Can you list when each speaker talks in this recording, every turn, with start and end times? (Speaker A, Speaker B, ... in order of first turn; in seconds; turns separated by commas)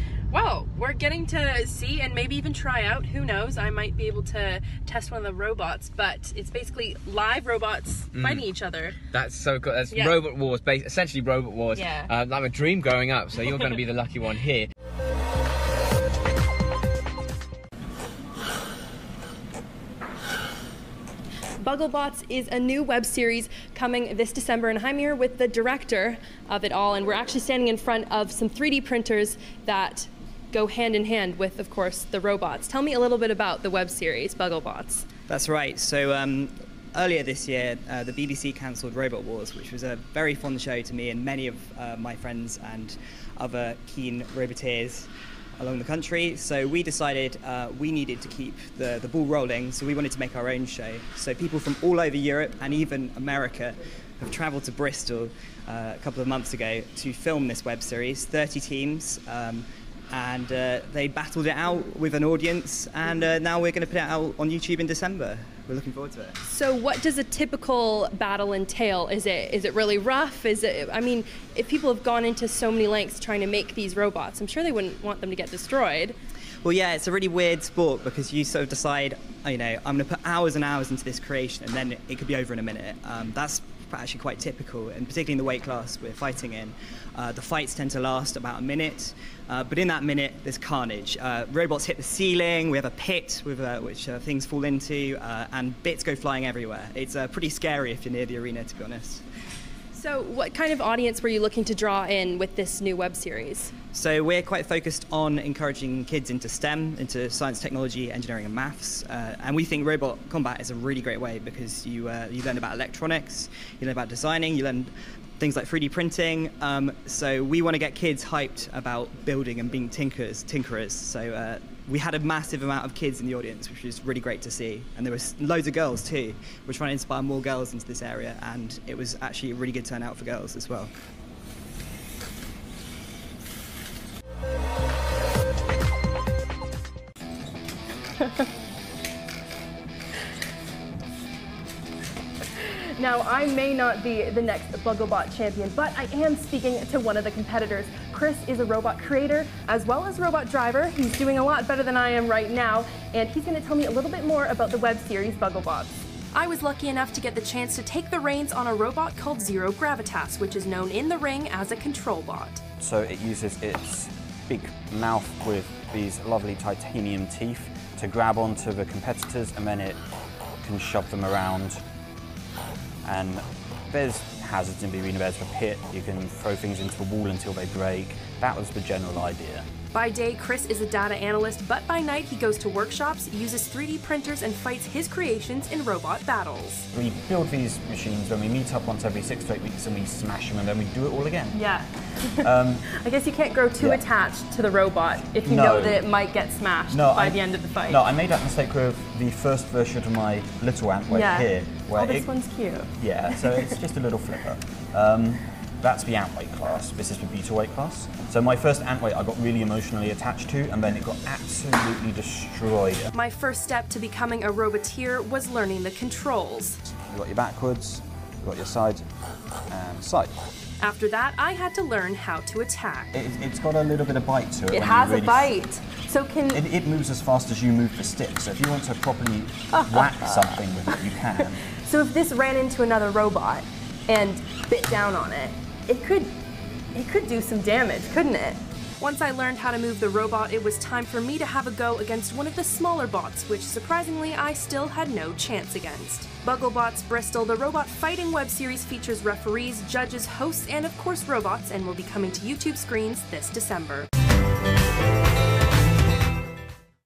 Speaker A: 0.3-9.0, Speaker B: 8.1-8.4, Speaker B: 9.1-14.7, Speaker A: 9.9-10.2, Speaker A: 11.7-12.1, Speaker A: 21.6-35.1, Speaker C: 35.3-66.4, Speaker A: 66.4-76.1, Speaker C: 76.6-99.2, Speaker A: 99.9-103.7, Speaker C: 103.9-130.9, Speaker A: 142.6-162.6, Speaker D: 162.8-170.0, Speaker D: 170.6-171.8, Speaker D: 173.0-179.6, Speaker A: 179.9-186.8, Speaker D: 186.9-191.6, Speaker A: 191.5-198.0, Speaker D: 192.4-192.8, Speaker D: 195.4-196.0, Speaker D: 196.9-202.3, Speaker A: 201.1-203.7, Speaker D: 203.0-213.1, Speaker A: 213.1-216.8, Speaker D: 217.1-219.1, Speaker D: 219.7-220.3, Speaker A: 220.8-223.1, Speaker D: 223.1-225.5, Speaker A: 224.7-226.6, Speaker D: 226.5-231.6, Speaker A: 229.7-231.0, Speaker A: 231.7-236.3, Speaker A: 236.9-254.1